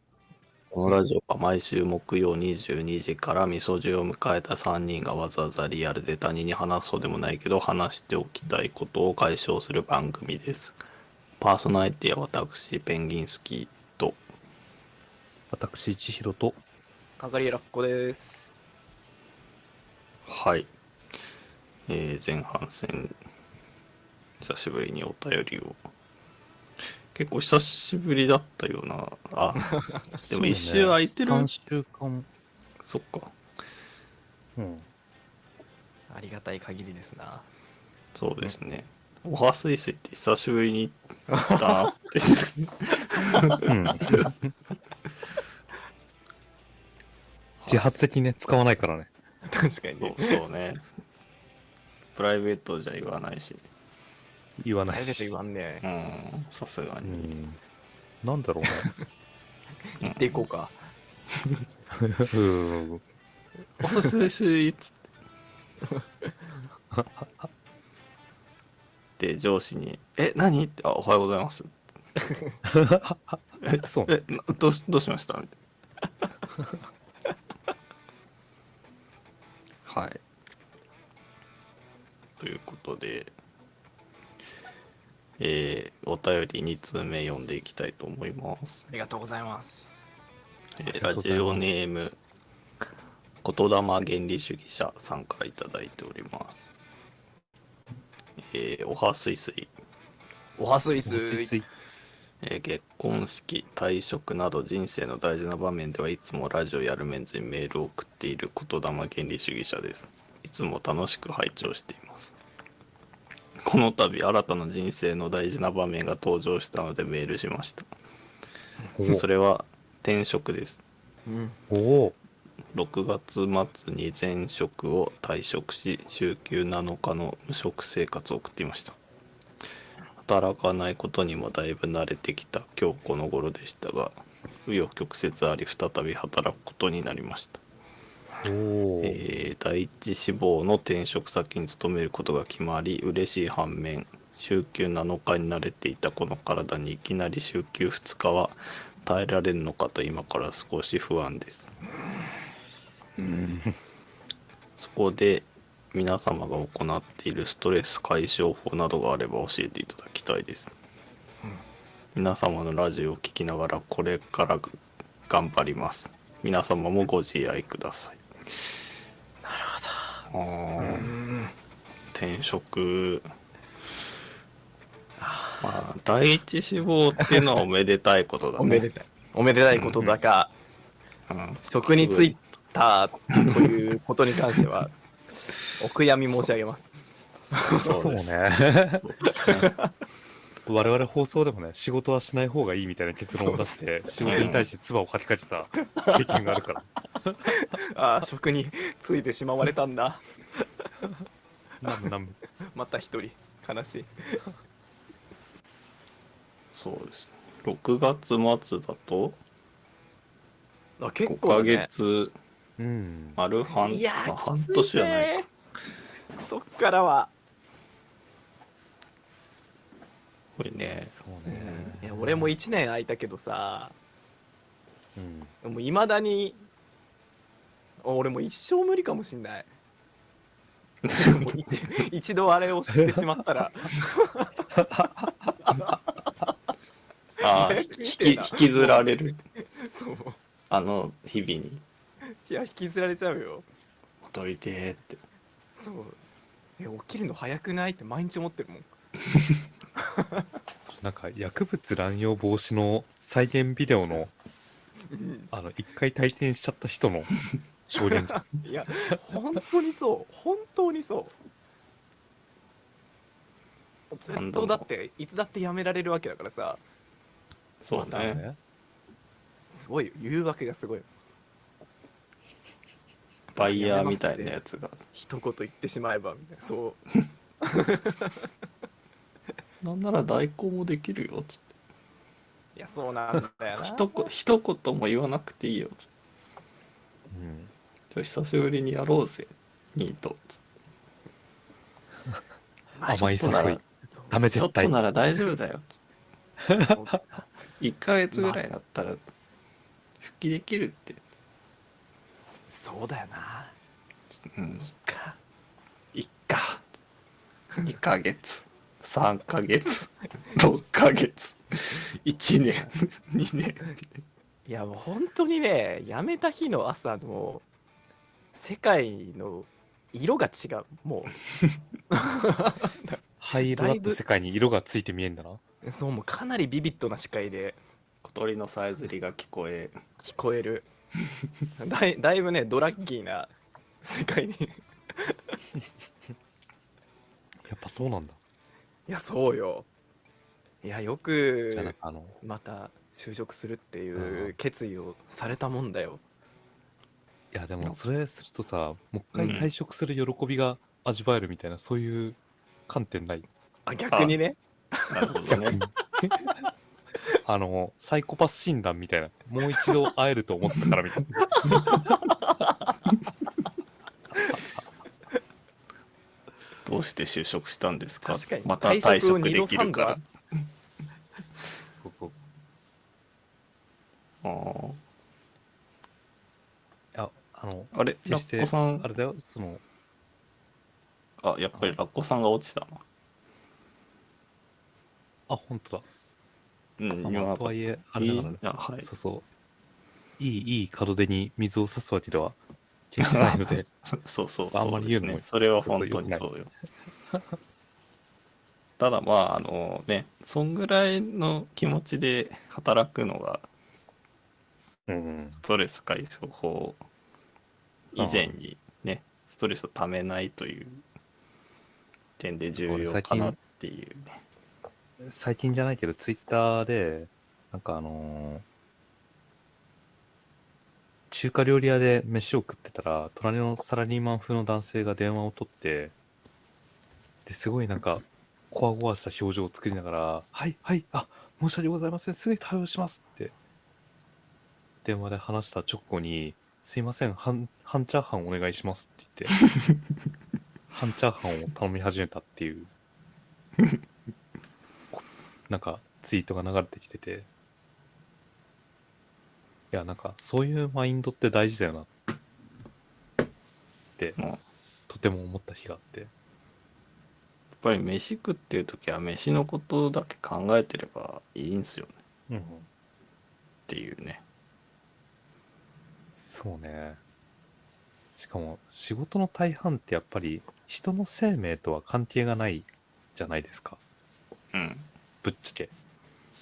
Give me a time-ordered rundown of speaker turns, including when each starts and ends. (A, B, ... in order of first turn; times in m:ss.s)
0:00.7-0:10.8 A
0:11.4-0:14.2 A
0:15.5-0:16.6 B
0:17.2-0:18.5 C
0:20.2-0:20.7 A
0:21.9-0:23.1 A
0:24.4-0:25.8 A
0:27.1-0:29.6 A
0:30.2-0:31.5 A
0:30.2-0:32.3 B
0:32.8-0:33.3 A
0:34.6-0:34.9 B
0:36.1-0:37.4 C
0:38.2-0:44.2 A
0:41.3-0:41.9 C
0:43.1-0:43.6 C
0:43.6-0:44.5 B
0:47.6-0:47.9 A
0:47.7-0:49.1 B
0:49.5-0:50.4 C
0:50.0-0:50.8 A
0:52.1-0:53.6 A
0:54.6-0:55.3 B
0:54.9-0:55.8 C
0:55.8-0:57.4 A
0:57.0-0:57.6 B
0:58.2-0:58.9 B
0:59.9-1:00.8 C
1:00.0-1:00.3 A
1:02.0-1:03.0 B
1:03.8-1:05.0 A
1:06.9-1:07.5 B
1:09.2-1:11.7 A
1:12.6-1:14.2 B
1:13.6-1:15.5 A
1:19.8-1:20.2 A
1:22.4-1:23.3 A
1:25.4-1:28.9 A
1:28.9-1:30.1 C
1:30.8-1:32.2 A
1:30.9-1:31.9 B
1:33.4-1:36.7 A
1:38.4-1:39.7 A
1:40.6-1:41.5 C
1:41.0-1:41.6 B
1:42.4-1:52.3 A
1:53.6-1:57.9 A
1:59.0-1:59.2 B
1:59.1-2:00.8 A
2:01.2-2:01.6 C
2:01.7-2:02.2 B
2:02.7-2:09.0 A
2:10.2-2:17.6 A
2:18.4-2:19.2 B
2:19.0-2:31.7 A
2:33.2-2:33.8 B
2:34.8-2:40.7 A
2:42.1-2:48.2 A
2:49.4-2:50.2 C
2:50.3-2:51.1 A
2:50.8-2:51.5 C
2:52.1-2:53.3 A
2:55.2-2:55.8 C
2:55.6-2:58.9 A
2:57.2-2:57.4 C
2:58.6-3:00.5 C
3:01.3-3:02.4 A
3:01.6-3:04.9 C
3:05.7-3:06.9 C
3:07.5-3:08.2 C
3:07.7-3:08.3 A
3:07.8-3:09.1 B
3:09.0-3:09.8 A
3:09.4-3:09.9 C
3:10.7-3:17.5 B
3:14.2-3:14.6 C
3:14.2-3:14.7 A
3:15.8-3:16.4 C
3:17.5-3:20.6 C
3:21.8-3:22.4 B
3:22.7-3:24.4 C
3:26.8-3:29.4 A
3:31.0-3:31.9 C
3:31.2-3:32.3 A
3:32.8-3:33.4 B
3:33.4-3:35.3 A
3:33.7-3:35.5 C
3:36.4-3:37.3 C
3:40.6-3:41.1 A
3:41.1-3:42.5 B
3:41.5-3:43.9 C
3:45.2-3:45.5 B
3:45.6-3:46.6 C
3:48.0-3:49.7 C
3:51.0-3:51.5 A
3:51.1-3:54.5 C
3:55.7-3:56.0 C
3:57.4-3:59.4 A
3:57.4-4:00.4 C
4:00.7-4:01.8 A
4:02.3-4:03.6 C
4:04.2-4:05.2 A
4:05.8-4:06.2 C
4:06.8-4:08.9 C
4:10.0-4:10.5 C
4:10.7-4:14.3 B
4:15.1-4:15.5 C
4:15.5-4:17.4 B
4:17.9-4:18.6 B
4:18.0-4:21.3 C
4:24.1-4:26.8 C
4:24.3-4:24.8 A
4:27.8-4:28.4 A
4:27.9-4:28.6 B
4:28.0-4:28.2 C
4:29.7-4:31.1 C
4:33.5-4:35.0 A
4:33.6-4:34.6 C
4:35.1-4:37.0 C
4:37.6-4:38.5 C
4:39.8-4:41.7 A
4:42.8-4:44.3 C
4:43.8-4:46.1 A
4:47.3-4:47.7 B
4:48.1-4:50.6 A
4:53.0-4:54.3 C
4:53.0-4:54.9 B
4:53.4-4:53.8 A
4:54.5-4:56.0 A
4:56.6-4:57.2 B
4:56.8-4:57.4 C
4:57.8-4:59.2 A
5:00.2-5:01.2 A
5:02.7-5:03.7 C
5:04.5-5:04.8 A
5:04.8-5:05.4 C
5:06.1-5:06.8 A
5:07.8-5:14.2 A
5:14.7-5:17.6 C
5:18.5-5:21.4 C
5:22.1-5:24.2 C
5:23.4-5:25.6 B
5:25.8-5:27.8 C
5:28.2-5:30.0 A
5:30.2-5:30.9 C
5:31.8-5:35.6 C
5:37.6-5:38.4 B
5:39.1-5:39.9 C
5:40.8-5:46.2 C
5:41.7-5:42.4 B
5:44.1-5:44.6 B
5:47.5-5:53.5 B
5:49.3-5:49.7 A
5:53.8-5:55.3 C
5:54.1-5:54.4 A
5:55.1-5:55.8 A
5:55.5-5:56.4 B
5:57.4-6:02.2 B
6:01.5-6:02.0 C
6:06.8-6:10.2 A
6:08.2-6:10.2 C
6:11.8-6:12.4 B
6:14.4-6:15.0 A
6:17.1-6:19.8 B
6:17.9-6:19.1 A
6:21.4-6:23.0 A
6:25.5-6:26.0 B
6:27.0-6:29.1 A
6:27.2-6:29.4 B
6:30.4-6:32.6 B
6:33.1-6:33.9 B
6:33.2-6:36.7 A
6:34.7-6:36.4 B
6:39.0-6:43.7 A
6:45.1-6:45.6 B
6:45.6-6:47.0 A
6:48.1-6:51.0 A
6:48.2-6:48.5 B
6:52.4-6:54.4 A
6:52.8-6:53.6 B
6:55.2-6:58.6 B
7:01.3-7:06.1 B
7:07.4-7:13.5 B
7:15.0-7:19.6 B
7:20.9-7:22.9 B
7:25.1-7:27.5 B
7:29.9-7:32.1 B
7:35.1-7:36.3 B
7:37.8-7:42.1 A
7:42.5-7:42.8 B
7:43.9-7:44.4 A
7:46.4-7:47.2 B
7:48.4-7:54.0 B
7:54.7-7:55.1 A
7:55.4-7:55.9 B